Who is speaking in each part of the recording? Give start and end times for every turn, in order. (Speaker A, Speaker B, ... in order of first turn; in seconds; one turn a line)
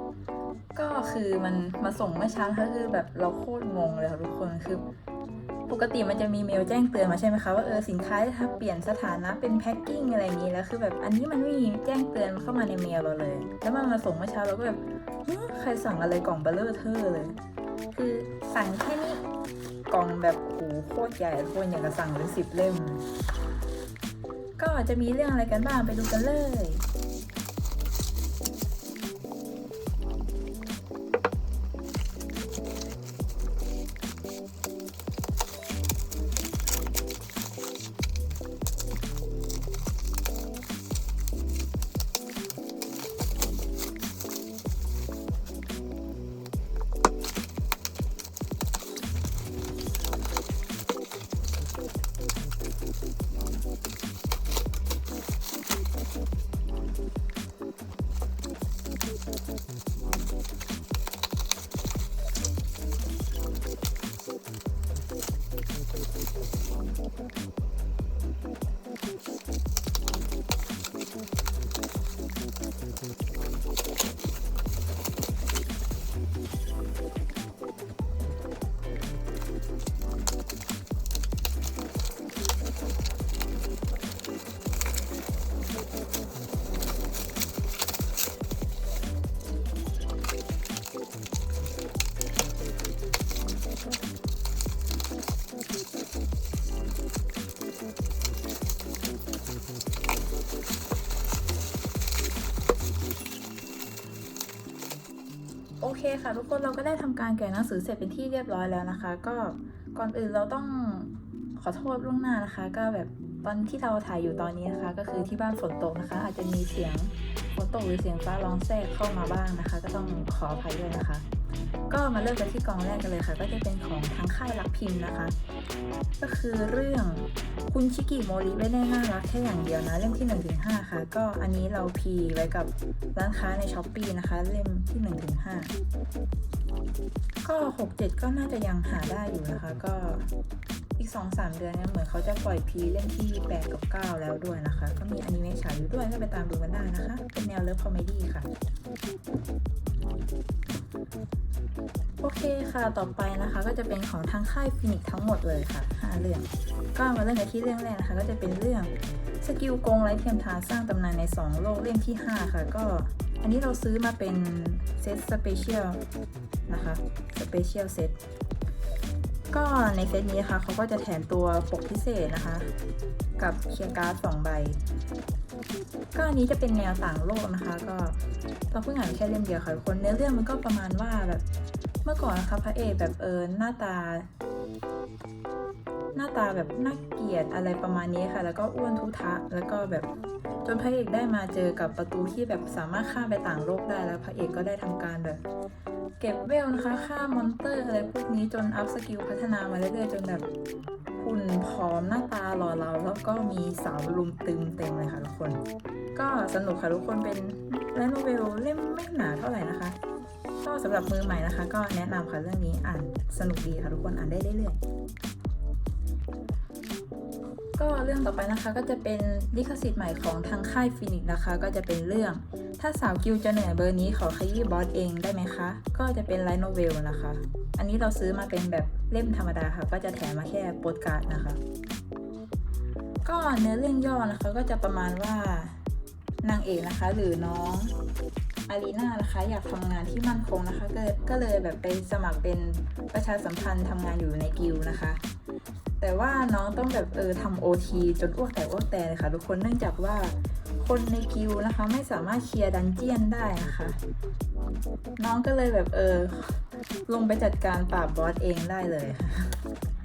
Speaker A: 0.7-4.8
Speaker A: 5.7-17.4
Speaker A: 17.9-19.2
Speaker A: 19.9-23.0
Speaker A: 24.6-26.9
Speaker A: 105.8-121.2
Speaker A: 121.9-125.4
Speaker A: 126.2-135.7
Speaker A: 137.4-140.3
Speaker A: 141.0-148.5
Speaker A: 152.2-166.0
Speaker A: 166.7-168.2
Speaker A: 169.5-172.7
Speaker A: 173.4-174.8
Speaker A: 176.1-178.2
Speaker A: 178.7-181.4
Speaker A: 182.0-184.3
Speaker A: 186.1-190.1
Speaker A: 190.6-195.4
Speaker A: 196.2-200.5
Speaker A: 201.2-205.6
Speaker A: 206.1-210.0
Speaker A: 210.6-214.8
Speaker A: 217.8-231.6
Speaker A: 233.2-235.8
Speaker A: 236.4-237.9
Speaker A: 238.7-245.2
Speaker A: 246.0-254.0
Speaker A: 255.2-259.6